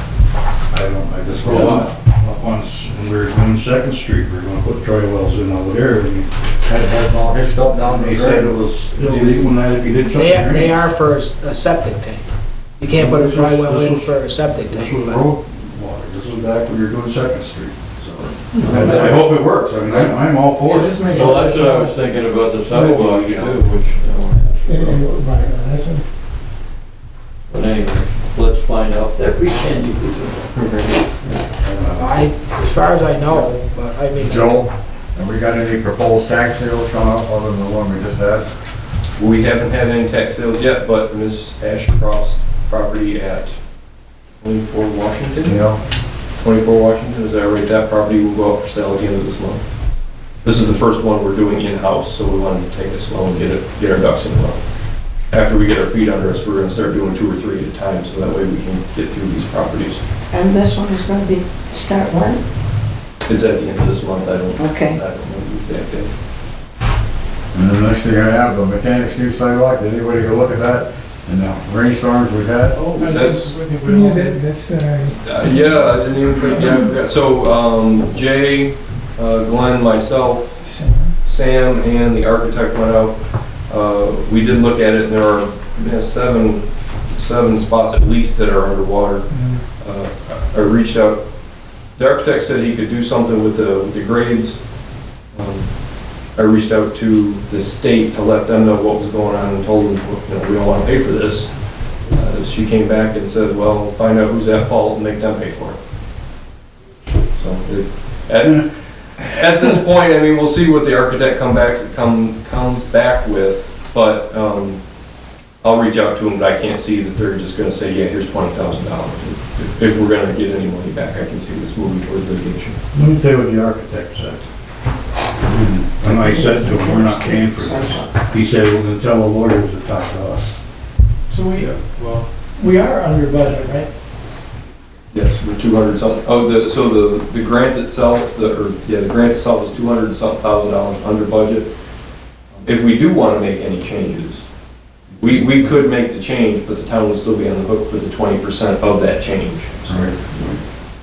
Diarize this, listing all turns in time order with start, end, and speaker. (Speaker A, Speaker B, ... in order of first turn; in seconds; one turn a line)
Speaker A: 0.7-6.3
Speaker B: 1.4-1.9
Speaker B: 6.6-9.3
Speaker A: 7.8-10.9
Speaker C: 10.1-12.2
Speaker C: 12.8-14.9
Speaker A: 12.9-21.4
Speaker D: 18.6-19.3
Speaker E: 20.6-21.9
Speaker D: 21.0-25.0
Speaker A: 22.7-23.6
Speaker F: 24.6-26.0
Speaker D: 27.5-30.5
Speaker G: 30.5-31.0
Speaker D: 31.2-31.4
Speaker A: 31.6-32.3
Speaker C: 31.9-34.6
Speaker B: 34.2-38.5
Speaker G: 39.1-43.6
Speaker G: 44.4-45.6
Speaker B: 45.4-45.8
Speaker G: 46.3-49.6
Speaker G: 50.4-54.6
Speaker G: 55.3-60.0
Speaker H: 60.3-62.4
Speaker G: 63.2-66.1
Speaker H: 64.5-65.0
Speaker B: 67.5-72.8
Speaker E: 72.7-74.4
Speaker G: 72.9-73.7
Speaker F: 73.8-75.8
Speaker G: 75.2-80.6
Speaker F: 76.5-76.9
Speaker F: 80.6-81.1
Speaker G: 81.2-83.1
Speaker G: 83.7-89.3
Speaker F: 89.3-89.6
Speaker G: 89.8-91.2
Speaker G: 92.0-94.6
Speaker G: 95.3-101.5
Speaker G: 102.1-105.8
Speaker G: 107.3-114.8
Speaker G: 115.6-122.8
Speaker A: 122.9-124.5
Speaker B: 125.5-125.8
Speaker A: 125.8-130.5
Speaker H: 126.1-128.3
Speaker E: 131.3-133.9
Speaker D: 131.6-131.8
Speaker G: 135.1-141.7
Speaker G: 142.6-144.4
Speaker G: 145.2-150.3
Speaker A: 149.9-150.5